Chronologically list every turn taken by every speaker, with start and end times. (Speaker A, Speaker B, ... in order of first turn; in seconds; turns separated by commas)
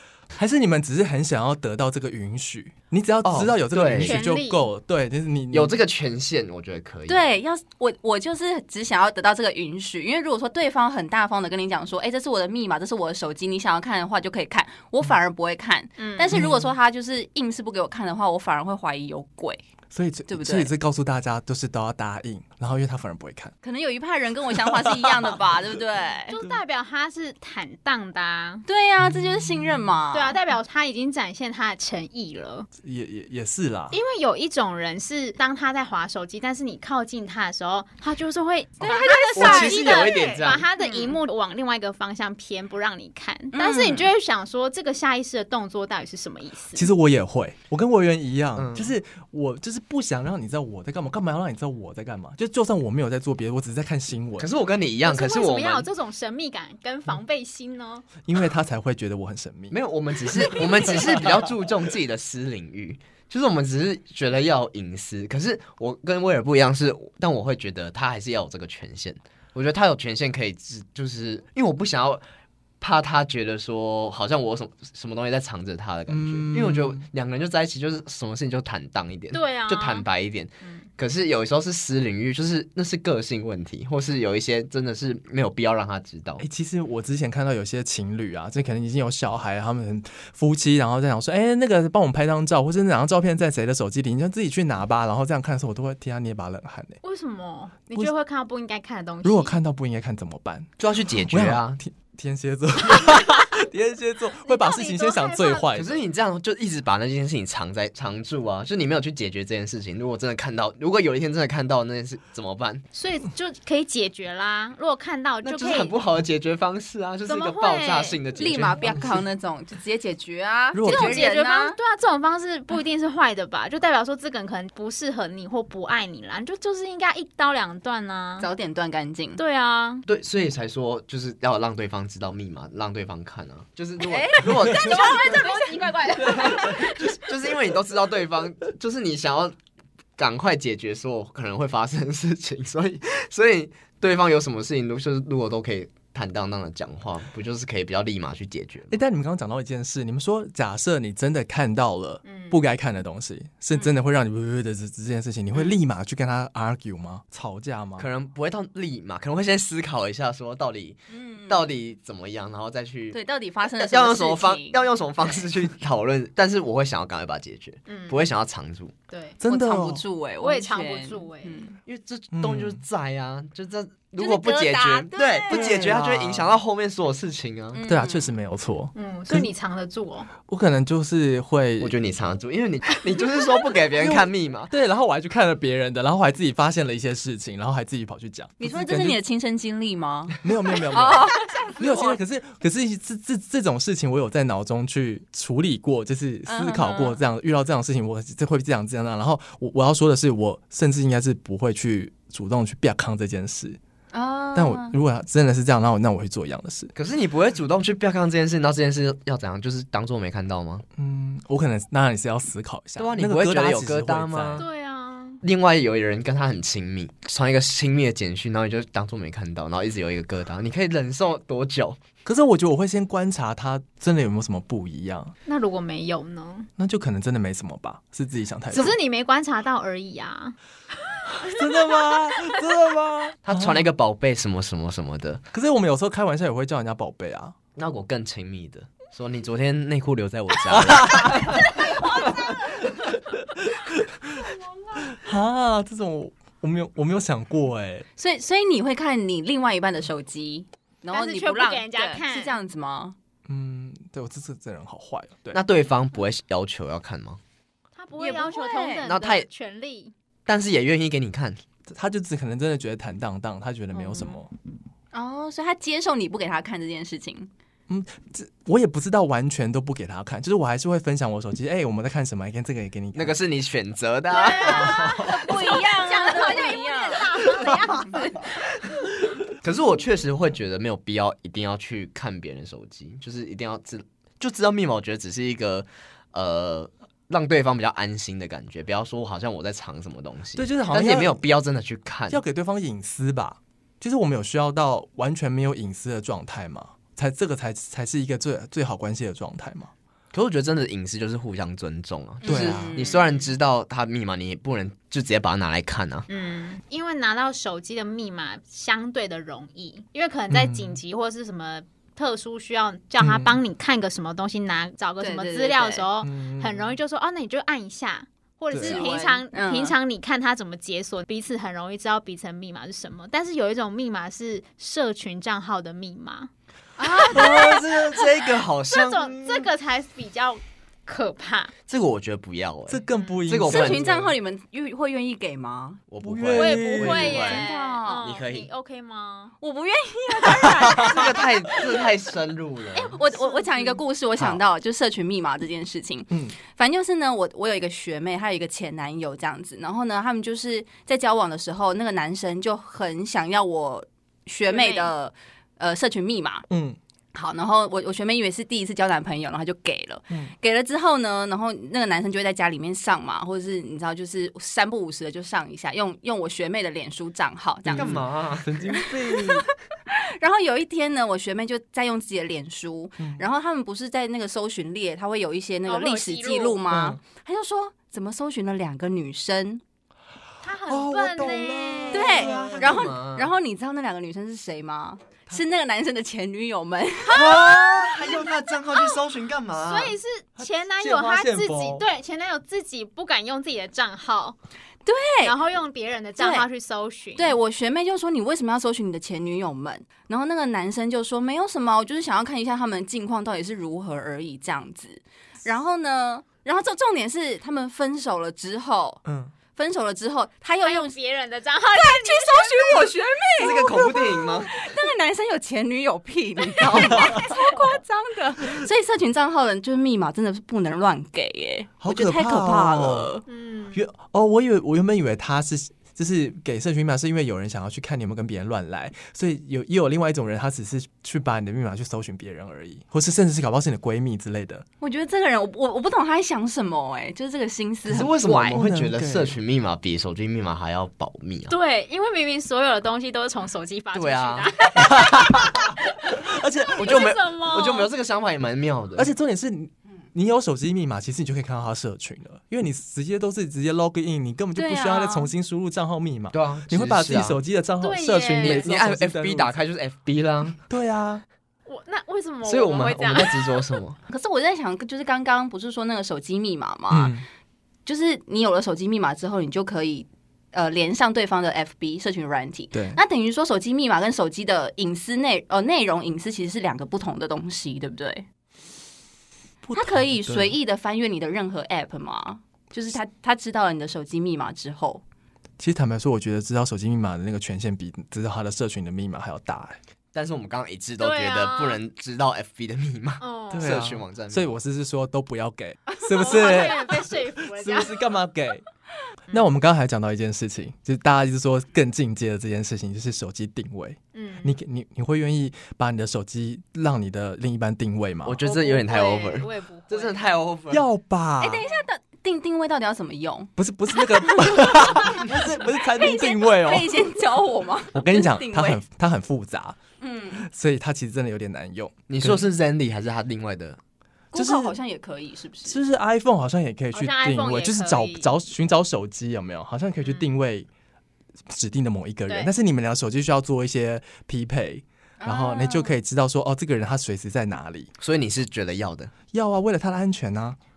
Speaker A: 0.3-5.8, Speaker B: 3.2-4.2, Speaker C: 3.9-4.7, Speaker B: 5.5-7.2, Speaker D: 7.1-19.6, Speaker C: 16.0-16.4, Speaker A: 16.3-16.6, Speaker A: 19.9-23.5, Speaker D: 20.3-20.7, Speaker D: 23.6-26.4, Speaker A: 24.6-25.4, Speaker C: 26.3-28.6, Speaker D: 28.6-30.4, Speaker C: 30.1-32.7, Speaker A: 32.8-34.0, Speaker C: 33.9-46.9, Speaker D: 38.8-40.2, Speaker B: 39.3-40.7, Speaker D: 40.8-41.2, Speaker D: 43.5-44.1, Speaker A: 46.8-54.5, Speaker B: 48.5-48.9, Speaker B: 54.4-55.9, Speaker C: 55.0-58.1, Speaker A: 58.2-59.8, Speaker B: 59.7-72.2, Speaker B: 72.8-86.4, Speaker A: 76.1-77.0, Speaker C: 79.3-80.1, Speaker A: 86.4-97.0, Speaker C: 97.0-99.5, Speaker A: 99.2-106.0, Speaker B: 100.8-101.8, Speaker C: 104.4-105.8, Speaker B: 105.7-112.8, Speaker C: 112.9-116.0, Speaker B: 115.4-119.1, Speaker C: 117.3-118.2, Speaker D: 118.3-121.8, Speaker A: 120.7-121.3, Speaker C: 120.8-128.5, Speaker D: 128.4-129.4, Speaker C: 129.4-130.1, Speaker B: 130.1-135.4, Speaker D: 134.0-136.8, Speaker C: 134.8-137.2, Speaker B: 136.2-139.5, Speaker B: 140.2-148.9, Speaker A: 148.9-158.1, Speaker C: 152.2-152.6, Speaker B: 158.0-168.9, Speaker D: 161.1-161.7, Speaker D: 163.1-165.4, Speaker C: 167.9-168.3, Speaker C: 169.1-169.4, Speaker A: 169.4-170.0, Speaker D: 169.4-171.8, Speaker C: 170.4-171.7, Speaker B: 171.8-177.8, Speaker A: 172.3-172.8, Speaker D: 174.2-176.0, Speaker A: 175.5-176.6, Speaker D: 177.7-178.3, Speaker A: 177.8-179.5, Speaker C: 178.9-180.3, Speaker A: 180.5-181.9, Speaker B: 181.8-184.7, Speaker A: 184.0-189.2, Speaker D: 188.6-192.2, Speaker A: 190.4-203.8, Speaker D: 196.4-197.2, Speaker D: 204.1-204.9, Speaker A: 204.5-206.9, Speaker B: 206.9-210.8, Speaker A: 211.0-214.6, Speaker B: 213.0-214.6, Speaker C: 214.6-215.4, Speaker B: 215.4-222.0, Speaker A: 222.2-225.3, Speaker C: 225.4-226.7, Speaker A: 226.8-228.9, Speaker C: 228.7-230.6, Speaker C: 231.1-231.6, Speaker A: 231.3-233.8, Speaker B: 233.4-235.4, Speaker A: 235.5-237.5, Speaker B: 237.8-242.3, Speaker A: 240.7-241.7, Speaker C: 241.8-242.3, Speaker A: 243.6-244.5, Speaker A: 245.1-248.1, Speaker D: 248.2-253.1, Speaker C: 251.1-252.6, Speaker A: 253.5-255.6, Speaker B: 255.5-257.4, Speaker C: 257.9-260.1, Speaker D: 258.2-259.1, Speaker B: 259.0-259.5, Speaker B: 260.5-261.6, Speaker A: 261.9-264.5, Speaker C: 263.9-264.4, Speaker D: 265.1-267.5, Speaker A: 267.9-273.4, Speaker B: 273.1-275.3, Speaker C: 274.3-278.4, Speaker D: 274.7-278.4, Speaker B: 279.6-292.4, Speaker A: 290.6-291.4, Speaker A: 292.3-299.9, Speaker B: 300.3-306.3, Speaker A: 302.4-303.1, Speaker D: 302.4-303.2, Speaker C: 303.0-303.5, Speaker C: 306.3-326.5, Speaker A: 310.5-311.0, Speaker A: 313.2-313.6, Speaker D: 315.2-316.1, Speaker A: 316.2-316.9, Speaker A: 318.7-319.1, Speaker D: 318.8-319.9, Speaker D: 327.0-327.6, Speaker C: 327.0-331.7, Speaker B: 327.1-329.7, Speaker B: 331.9-334.3, Speaker A: 332.9-334.2, Speaker D: 333.6-336.0, Speaker B: 336.1-337.6, Speaker A: 336.2-337.5, Speaker C: 336.5-339.5, Speaker D: 337.3-338.3, Speaker B: 338.2-338.7, Speaker D: 339.6-342.0, Speaker B: 340.9-343.2, Speaker D: 342.9-356.6, Speaker C: 343.3-343.9, Speaker A: 346.3-346.6, Speaker C: 354.7-355.1, Speaker A: 356.7-357.0, Speaker D: 357.3-368.2, Speaker A: 367.8-369.6, Speaker B: 367.9-368.8, Speaker D: 368.9-379.8, Speaker C: 375.9-376.8, Speaker A: 376.9-377.2, Speaker C: 380.6-382.7, Speaker A: 380.9-383.1, Speaker D: 382.1-387.5, Speaker B: 382.4-383.5, Speaker C: 387.2-389.2, Speaker B: 387.3-390.1, Speaker C: 389.8-394.6, Speaker A: 390.6-392.0, Speaker D: 395.1-395.6, Speaker C: 395.4-397.5, Speaker D: 396.4-396.7, Speaker D: 397.4-409.2, Speaker A: 409.2-409.5, Speaker D: 409.8-411.1, Speaker C: 410.8-413.1, Speaker D: 411.9-423.4, Speaker B: 412.9-414.7, Speaker A: 417.0-417.3, Speaker A: 422.0-423.4, Speaker C: 423.5-424.0, Speaker A: 423.9-434.8, Speaker D: 435.0-438.8, Speaker B: 438.1-441.7, Speaker A: 438.7-439.6, Speaker C: 441.7-448.1, Speaker B: 444.1-444.7, Speaker A: 445.0-447.2, Speaker B: 447.0-449.3, Speaker A: 449.1-459.7, Speaker D: 454.7-455.5, Speaker B: 456.5-457.6, Speaker C: 458.0-458.9, Speaker B: 458.6-460.8, Speaker A: 460.9-461.4, Speaker C: 461.9-463.9, Speaker B: 462.6-464.2, Speaker D: 464.3-467.3, Speaker A: 467.1-467.4, Speaker D: 468.1-478.4, Speaker A: 472.9-473.2, Speaker A: 479.8-480.7, Speaker D: 479.9-485.2, Speaker A: 485.8-490.0, Speaker B: 490.3-494.7, Speaker C: 491.2-492.0, Speaker C: 493.4-494.0, Speaker A: 493.7-498.8, Speaker C: 496.3-498.4, Speaker A: 499.5-508.6, Speaker C: 504.3-504.8, Speaker B: 508.4-511.0, Speaker C: 508.6-510.5, Speaker A: 510.9-511.8, Speaker D: 511.6-513.7, Speaker A: 513.8-517.1, Speaker D: 514.3-519.0, Speaker A: 518.1-520.0, Speaker D: 520.2-520.6, Speaker A: 520.5-522.6, Speaker B: 522.3-524.0, Speaker D: 524.5-526.0, Speaker A: 524.5-525.0, Speaker A: 525.8-530.9, Speaker C: 527.1-528.5, Speaker C: 530.2-530.5, Speaker A: 531.7-538.1, Speaker D: 535.4-536.2, Speaker B: 538.2-539.3, Speaker A: 539.5-540.8